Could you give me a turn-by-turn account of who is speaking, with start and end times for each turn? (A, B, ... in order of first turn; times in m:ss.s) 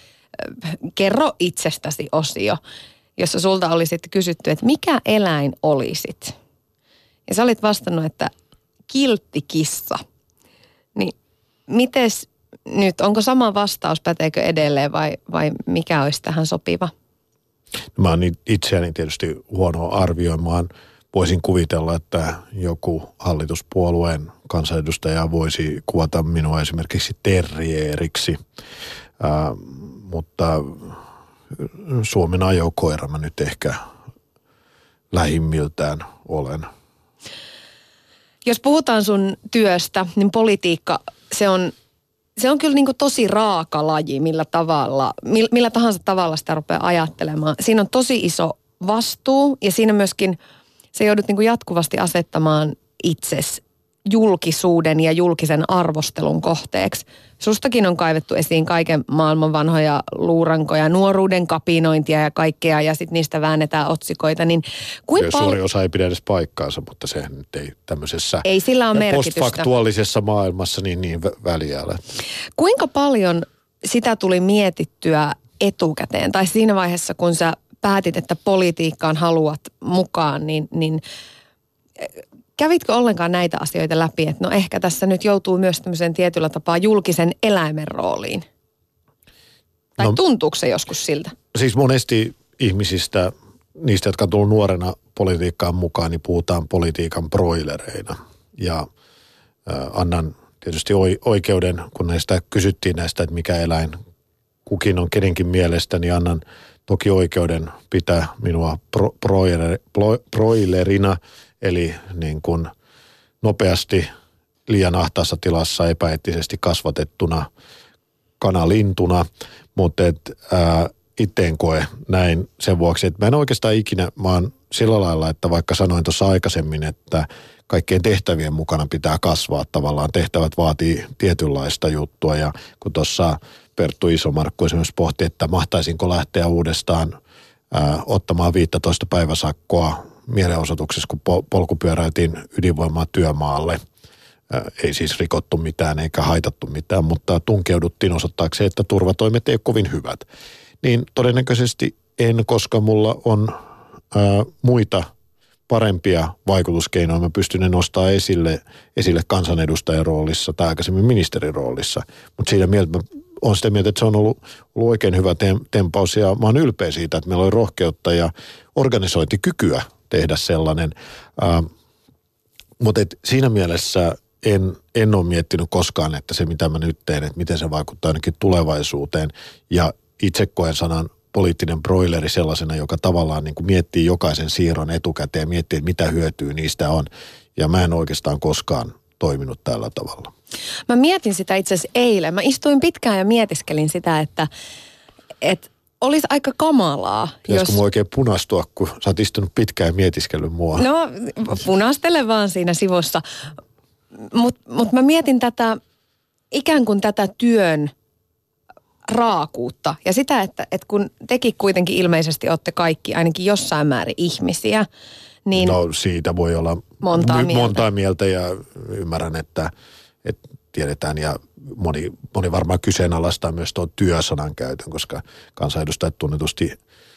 0:00.4-0:02.6 A
0:03.2-0:06.4 A
0:07.3-0:08.3 A
0:08.9-0:10.0 A
0:11.7-0:16.9 A
0:18.0-0:28.4 B
0:29.2-0:31.0 B
0:31.5-0:33.8 B
0:35.1-0:36.7 B
0:38.4-0:41.7 A
0:42.4-0:50.4 A
0:50.9-1:05.6 A
1:05.2-1:12.0 B
1:08.4-1:09.7 A
1:12.6-1:21.0 A
1:22.0-1:28.4 A
1:30.0-1:31.3 A
1:31.5-1:38.9 B
1:39.7-1:44.0 B
1:44.7-1:52.7 B
1:53.4-1:54.1 B
1:54.7-1:57.5 B
1:58.4-2:17.1 B
2:17.7-2:23.8 B
2:24.5-2:30.2 B
2:30.8-2:33.6 B
2:34.1-2:35.1 B
2:35.7-2:51.7 B
2:52.8-3:10.3 B
3:10.9-3:14.5 A
3:15.4-3:17.8 A
3:17.5-3:20.9 B
3:20.8-3:23.2 A
3:24.3-3:25.8 A
3:26.5-3:27.9 A
3:29.1-3:34.9 A
3:35.5-3:35.8 A
3:35.6-3:39.7 B
3:37.0-3:37.8 A
3:40.2-3:46.8 B